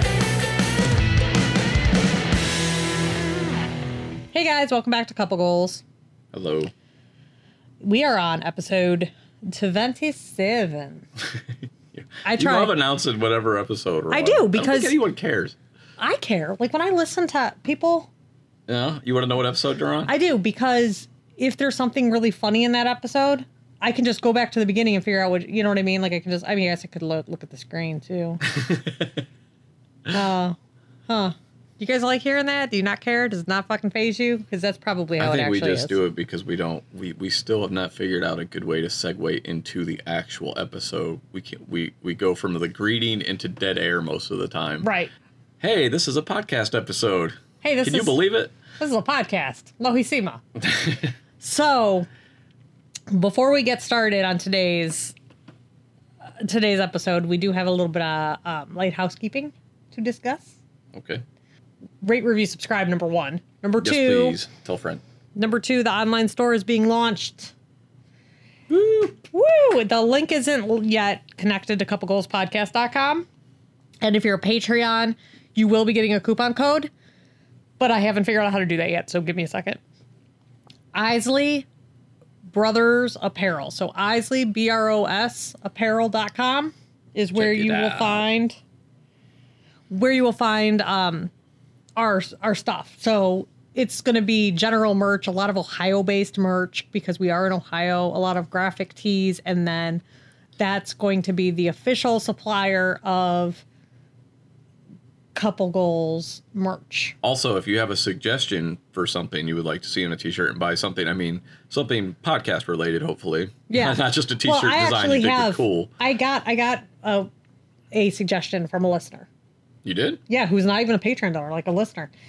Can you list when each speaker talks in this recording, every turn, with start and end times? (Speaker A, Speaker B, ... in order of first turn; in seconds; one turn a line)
Speaker A: 4.3-5.8
Speaker B: 6.3-6.7
Speaker A: 7.8-11.1
Speaker B: 11.9-15.6
Speaker A: 12.2-12.7
Speaker A: 14.1-15.0
Speaker A: 16.0-18.1
Speaker B: 18.7-20.1
Speaker A: 20.1-28.4
Speaker B: 28.4-29.1
Speaker A: 30.1-36.0
Speaker B: 35.2-44.9
Speaker A: 44.8-45.1
Speaker B: 45.6-48.5
Speaker A: 47.6-48.2
Speaker A: 48.8-50.4
Speaker B: 50.7-51.1
Speaker A: 51.4-52.1
Speaker A: 53.1-55.1
Speaker A: 56.4-60.6
Speaker B: 60.9-61.2
Speaker A: 62.0-64.4
Speaker B: 63.8-65.0
Speaker A: 65.3-67.5
Speaker A: 68.9-73.2
Speaker A: 74.0-76.9
Speaker A: 77.8-79.8
Speaker A: 80.9-81.7
Speaker A: 82.5-88.6
Speaker B: 87.3-88.2
Speaker A: 89.9-91.3
Speaker A: 92.0-100.0
Speaker A: 100.6-103.6
Speaker A: 105.3-107.2
Speaker B: 107.2-115.9
Speaker A: 113.7-117.3
Speaker A: 117.9-119.3
Speaker B: 119.8-120.2
Speaker A: 120.3-122.1